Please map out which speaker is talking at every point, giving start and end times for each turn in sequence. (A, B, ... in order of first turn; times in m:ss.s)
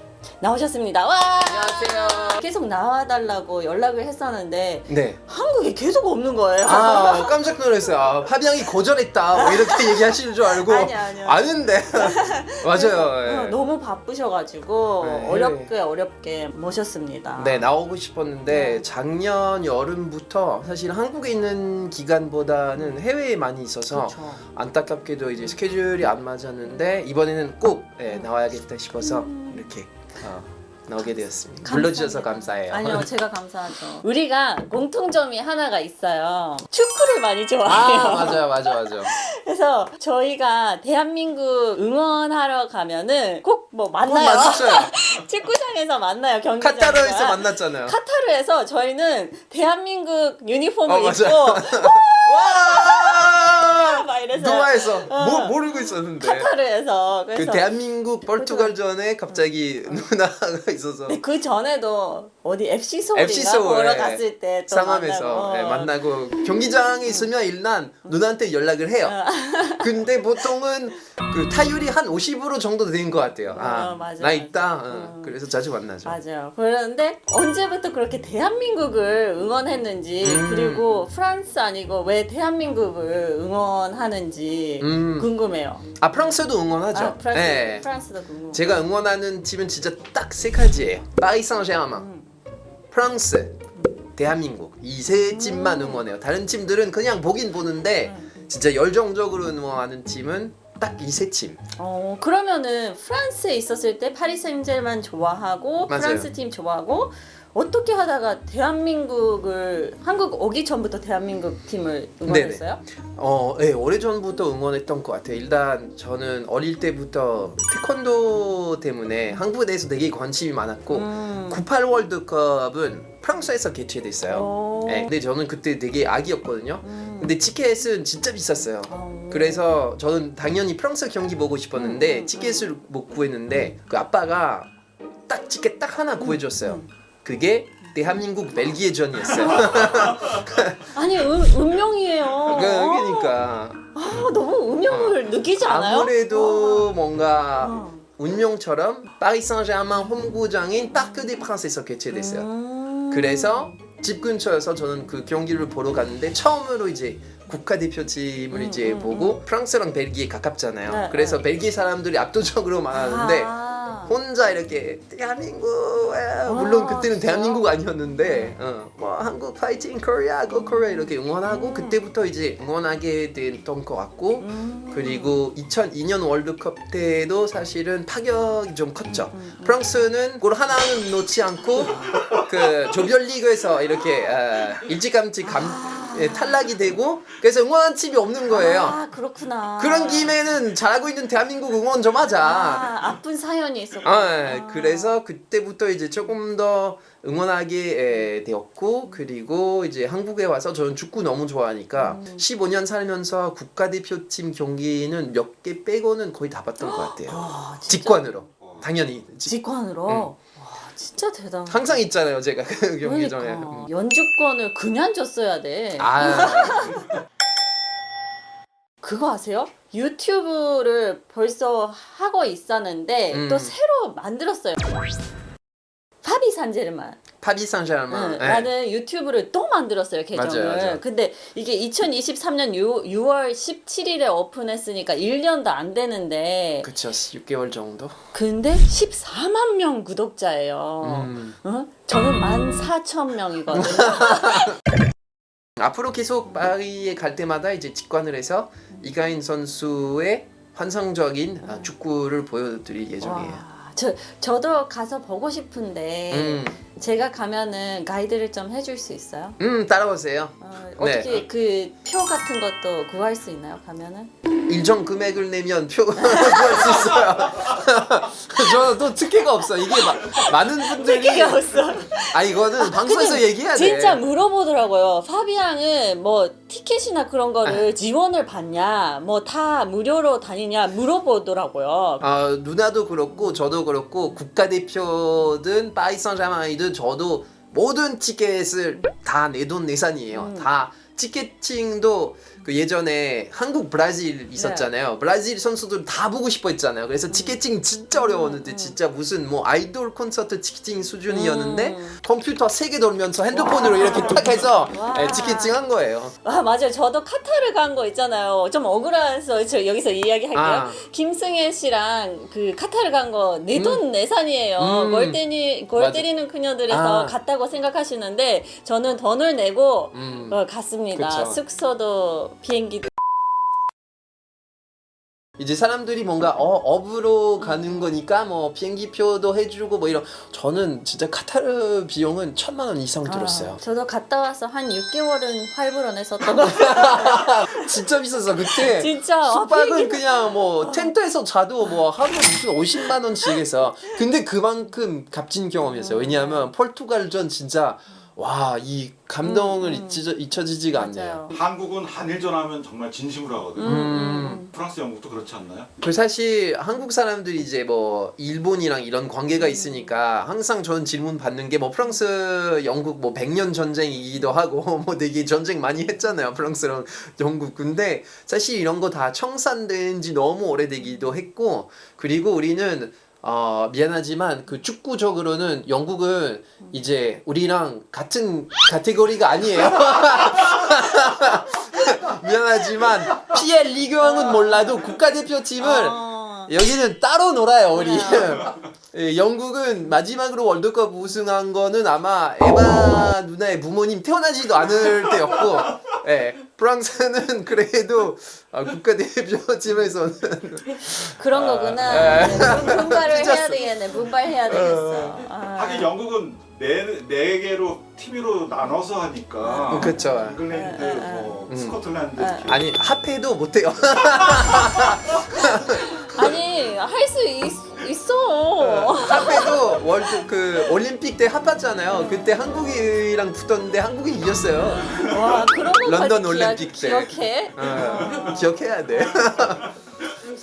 0:00.4-0:07.4 A
0:01.4-0:02.4 B
0:04.9-0:05.2 B
0:06.6-0:13.6 B
0:09.3-0:17.6 A
0:15.0-0:15.7 B
0:17.3-0:33.1 B
0:18.5-0:18.8 A
0:23.9-0:24.4 A
0:29.0-0:29.7 A
0:31.6-0:57.7 A
0:37.6-0:39.1 B
0:44.0-0:44.9 B
0:46.6-0:48.0 B
0:50.8-0:56.5 B
0:57.3-1:01.2 B
0:58.3-0:58.7 A
0:59.3-1:00.0 A
1:01.1-1:06.0 A
1:03.1-1:09.2 B
1:07.0-1:07.3 A
1:09.0-1:10.0 A
1:09.7-1:16.2 B
1:13.5-1:15.3 A
1:16.0-1:25.9 A
1:20.2-1:21.0 B
1:24.8-1:25.3 B
1:26.0-1:27.8 B
1:26.9-1:28.7 A
1:28.5-1:32.1 B
1:31.9-1:32.3 A
1:32.9-1:33.6 B
1:34.2-1:41.6 B
1:35.3-1:36.0 A
1:38.0-1:38.3 A
1:41.8-1:52.8 A
1:45.9-1:46.3 B
1:52.2-2:14.7 B
2:00.9-2:01.6 A
2:04.3-2:05.1 A
2:06.8-2:07.4 A
2:08.9-2:09.6 A
2:11.7-2:12.7 A
2:15.3-2:20.8 B
2:16.2-2:16.9 A
2:19.4-2:20.0 A
2:20.9-2:23.4 A
2:22.4-2:23.8 B
2:23.9-2:26.9 A
2:24.9-2:32.5 B
2:27.6-2:28.0 A
2:30.9-2:31.3 A
2:32.1-2:33.8 A
2:33.1-3:09.0 B
2:38.5-2:39.4 A
2:40.9-2:41.4 A
2:42.9-2:44.2 A
2:46.4-2:47.6 A
2:48.2-2:48.6 A
2:50.5-2:52.0 A
2:54.4-2:55.4 A
2:59.0-3:00.0 A
3:01.9-3:02.3 A
3:05.4-3:06.6 A
3:08.5-3:10.3 A
3:09.8-3:12.9 B
3:12.3-3:15.2 A
3:14.0-3:29.5 B
3:22.0-3:22.4 A
3:26.8-3:28.4 A
3:28.6-3:28.9 C
3:29.4-3:32.0 A
3:30.1-3:30.3 B
3:31.7-3:33.9 B
3:33.0-3:37.1 A
3:36.0-3:37.0 B
3:39.0-3:44.9 A
3:43.3-3:43.7 B
3:46.2-3:47.2 A
3:47.4-3:48.7 B
3:48.1-3:56.9 A
3:50.3-3:51.0 B
3:56.8-3:58.2 B
3:58.3-4:04.8 A
4:01.0-4:01.6 B
4:03.7-4:04.8 B
4:05.8-4:13.6 B
4:11.6-4:11.9 A
4:13.2-4:19.6 A
4:16.3-4:16.8 B
4:19.6-4:21.4 B
4:20.6-4:24.3 A
4:24.7-4:31.8 B
4:26.2-4:27.2 A
4:29.7-4:42.3 A
4:32.3-4:34.2 B
4:42.2-5:06.3 B
4:43.3-4:43.6 A
4:50.3-4:50.7 A
4:54.5-4:54.9 A
4:57.3-4:57.6 A
4:58.1-4:59.0 A
5:01.3-5:02.2 A
5:03.5-5:05.7 A
5:06.4-5:23.1 A
5:10.5-5:11.0 B
5:13.7-5:14.0 B
5:14.8-5:16.3 B
5:16.9-5:17.3 B
5:20.1-5:20.6 B
5:21.1-5:21.6 B
5:25.6-5:33.8 B
5:27.6-5:28.0 A
5:33.2-5:37.8 A
5:36.5-5:51.4 B
5:38.6-5:41.1 A
5:43.0-5:43.6 A
5:45.9-5:46.7 A
5:49.4-5:50.2 A
5:50.9-5:51.6 A
5:51.5-5:55.9 C
5:53.8-5:54.7 A
5:53.8-5:54.6 B
5:56.0-6:44.1 B
5:59.6-6:00.1 A
6:24.2-6:24.9 A
6:25.8-6:26.7 A
6:27.9-6:28.7 A
6:40.9-6:46.1 A
6:44.6-6:45.3 B
6:45.5-6:52.9 C
6:49.6-6:51.7 A
6:49.9-6:50.6 B
6:51.7-6:52.0 B
6:52.4-6:52.7 A
6:52.6-6:56.5 B
6:54.5-6:55.2 C
6:55.6-7:00.4 A
6:58.8-7:09.9 B
7:02.1-7:02.6 A
7:05.0-7:08.7 A